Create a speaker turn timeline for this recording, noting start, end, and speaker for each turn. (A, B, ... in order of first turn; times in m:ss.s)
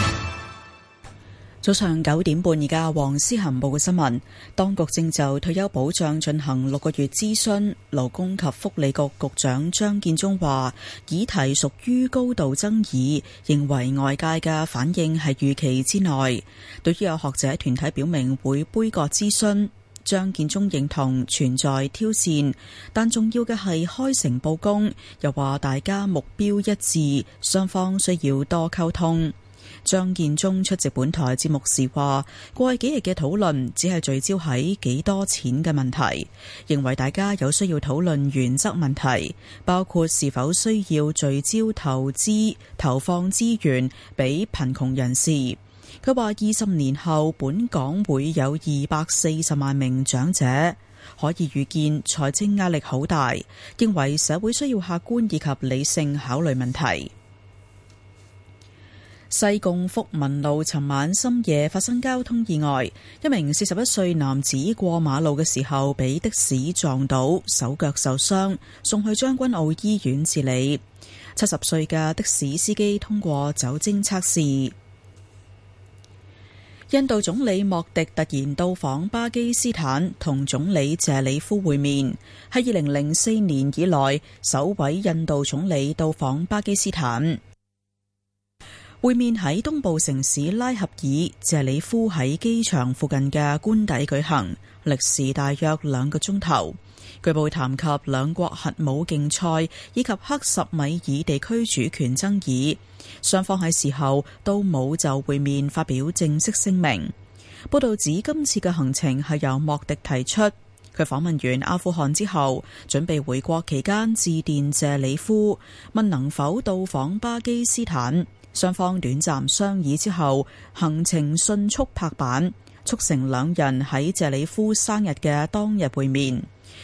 0:01.6-0:57.1 A
0:59.3-1:10.8 A
1:11.4-1:14.8 A
1:16.9-1:27.4 A
1:29.0-1:47.1 A
1:47.7-2:06.5 A